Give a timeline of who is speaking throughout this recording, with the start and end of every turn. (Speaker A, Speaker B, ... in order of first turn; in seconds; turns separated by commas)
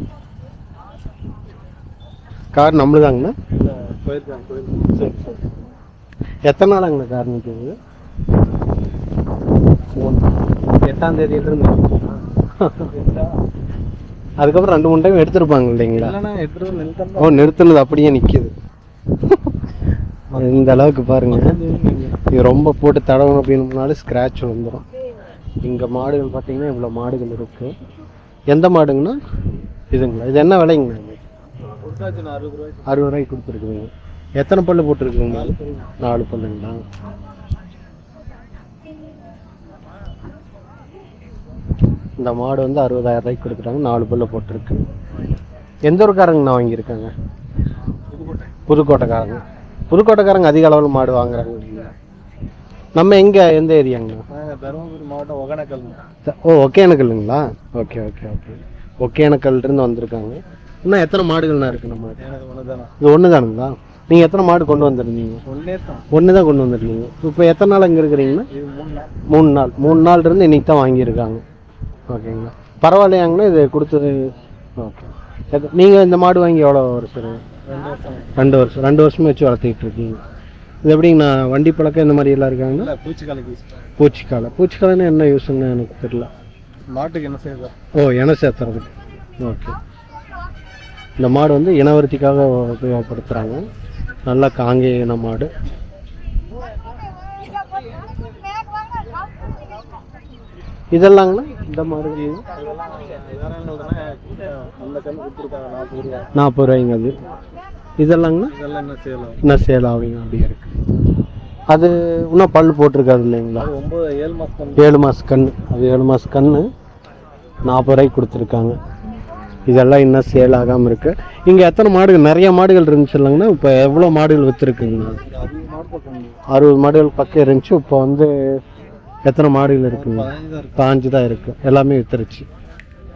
Speaker A: 2.5-3.4, Speaker B: 3.5-5.1, Speaker A: 5.0-5.4, Speaker A: 6.5-7.7, Speaker A: 10.0-10.3, Speaker A: 10.8-12.0, Speaker A: 12.6-12.9, Speaker B: 12.9-13.4, Speaker A: 14.4-16.2, Speaker B: 15.9-17.5, Speaker A: 17.2-18.5, Speaker A: 19.3-19.5, Speaker B: 20.3-22.2, Speaker A: 20.4-21.6, Speaker A: 22.2-24.9, Speaker A: 25.6-27.7, Speaker A: 28.5-29.2, Speaker A: 29.9-31.2, Speaker B: 31.8-32.9, Speaker A: 32.9-36.8, Speaker B: 35.3-36.0, Speaker A: 42.2-44.8, Speaker A: 45.9-47.1, Speaker B: 48.1-48.5, Speaker A: 48.7-51.9, Speaker A: 53.0-54.2, Speaker B: 54.3-56.0, Speaker A: 56.2-62.2, Speaker B: 62.2-62.9, Speaker A: 63.0-65.4, Speaker B: 65.5-66.1, Speaker A: 66.1-68.5, Speaker B: 68.5-69.2, Speaker A: 69.3-71.4, Speaker A: 72.1-77.4, Speaker B: 77.7-78.4, Speaker A: 78.4-80.2, Speaker A: 80.8-82.9, Speaker B: 82.7-83.7, Speaker A: 84.0-86.3, Speaker B: 86.9-87.7, Speaker A: 87.9-88.9, Speaker A: 89.4-89.8, Speaker A: 91.2-93.6, Speaker A: 94.3-95.5, Speaker A: 100.9-102.4, Speaker B: 102.4-106.3, Speaker A: 106.3-107.2, Speaker A: 108.0-108.5, Speaker B: 108.5-109.4, Speaker A: 109.4-110.7, Speaker A: 111.7-113.7, Speaker B: 113.6-114.9, Speaker A: 114.8-116.7, Speaker A: 117.7-118.8, Speaker A: 119.7-125.2, Speaker B: 125.2-126.4, Speaker A: 126.5-128.6, Speaker A: 129.2-132.5, Speaker B: 129.9-130.8